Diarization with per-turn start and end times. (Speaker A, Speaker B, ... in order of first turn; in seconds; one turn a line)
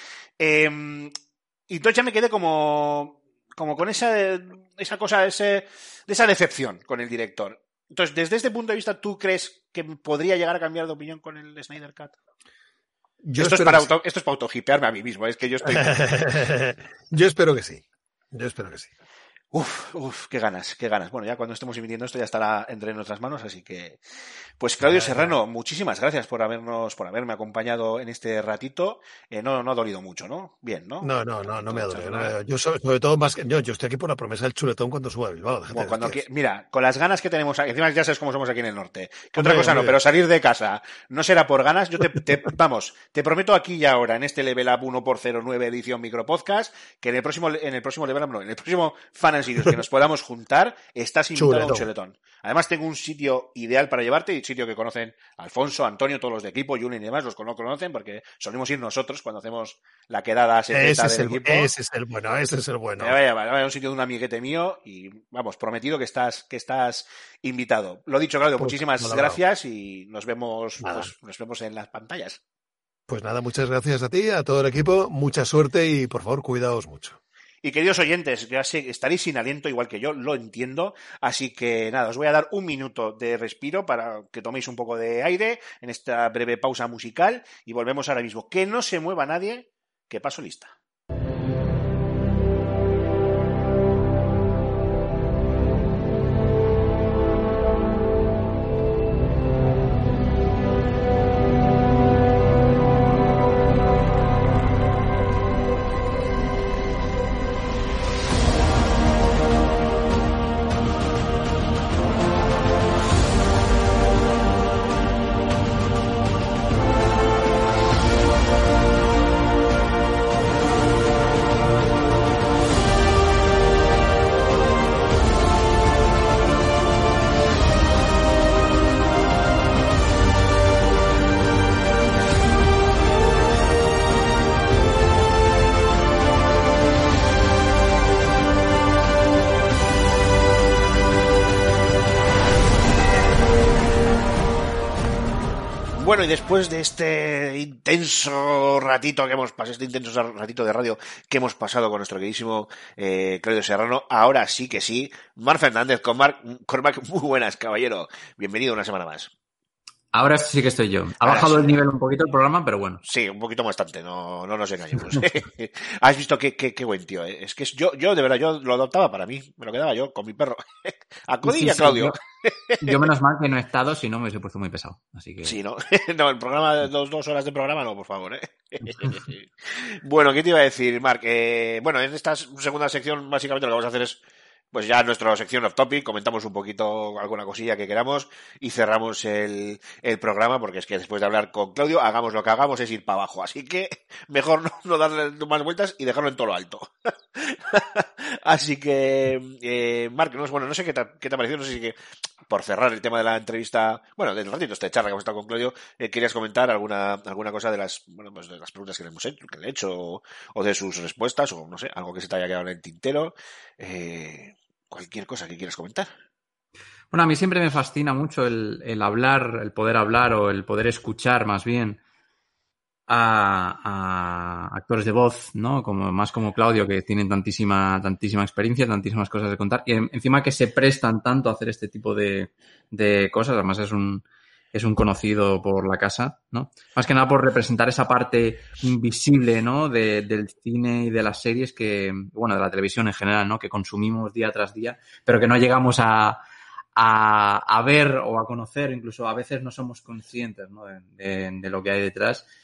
Speaker A: 0.4-1.1
Speaker A: 1.7-12.2
Speaker B: 13.2-13.9
Speaker A: 13.4-16.1
Speaker B: 15.6-18.9
Speaker A: 19.5-24.0
Speaker A: 24.6-32.4
Speaker B: 24.8-25.4
Speaker B: 31.0-36.2
Speaker A: 35.7-61.7
Speaker B: 39.4-40.0
Speaker B: 51.4-51.9
Speaker B: 60.7-63.1
Speaker A: 63.0-72.4
Speaker B: 68.6-69.4
Speaker B: 70.8-71.1
Speaker B: 73.1-77.2
Speaker A: 77.6-90.7
Speaker A: 145.9-159.3
Speaker C: 160.1-163.0
Speaker A: 161.2-161.7
Speaker A: 163.1-173.0
Speaker C: 171.4-172.2
Speaker C: 172.8-175.6
Speaker A: 175.4-184.2
Speaker A: 184.7-201.9
Speaker A: 202.5-216.1
Speaker C: 217.1-222.0
Speaker C: 223.1-246.4
Speaker C: 246.9-252.5